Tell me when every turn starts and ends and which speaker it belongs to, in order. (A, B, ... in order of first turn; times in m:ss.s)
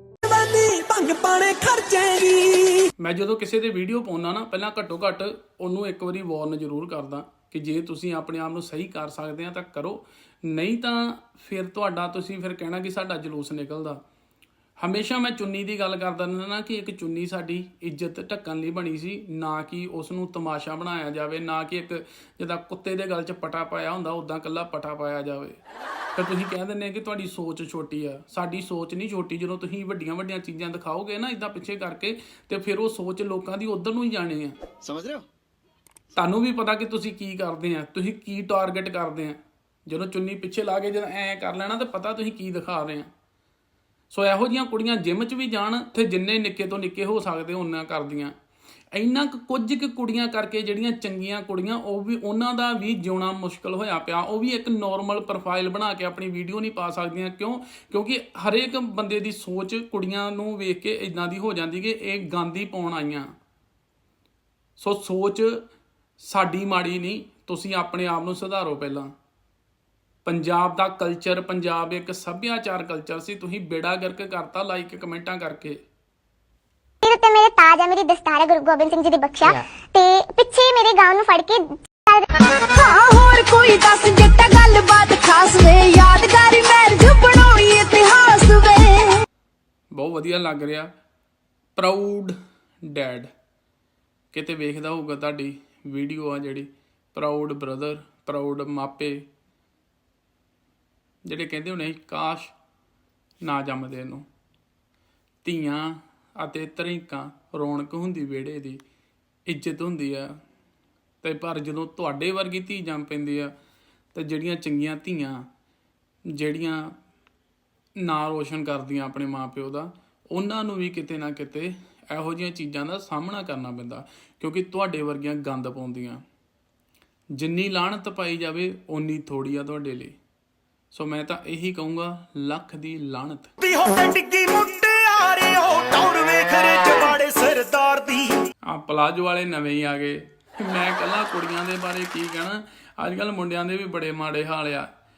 0:00.3-0:02.8 A
0:03.0-0:14.0 B
0:14.8-0:25.6 B
0:26.1-0:34.6 B
0:36.1-0:43.1 B
0:44.1-0:48.3 B
0:48.9-1:03.3 B
1:04.8-1:05.6 B
1:06.2-1:09.1 B
1:10.2-1:15.8 B
1:17.0-1:22.3 C
1:22.7-1:29.2 D
1:29.9-1:30.9 B
1:31.8-1:33.3 B
1:34.3-1:39.3 B
1:41.2-1:42.5 B
1:43.4-1:44.2 B
1:45.4-1:48.8 B
1:49.5-1:50.3 B
1:51.2-1:53.5 B
1:54.1-1:55.4 B
1:56.3-1:56.9 B
1:58.0-2:06.2 B
2:07.4-2:10.2 B
2:10.9-2:13.5 B
2:13.6-2:18.4 A
2:18.6-2:24.9 B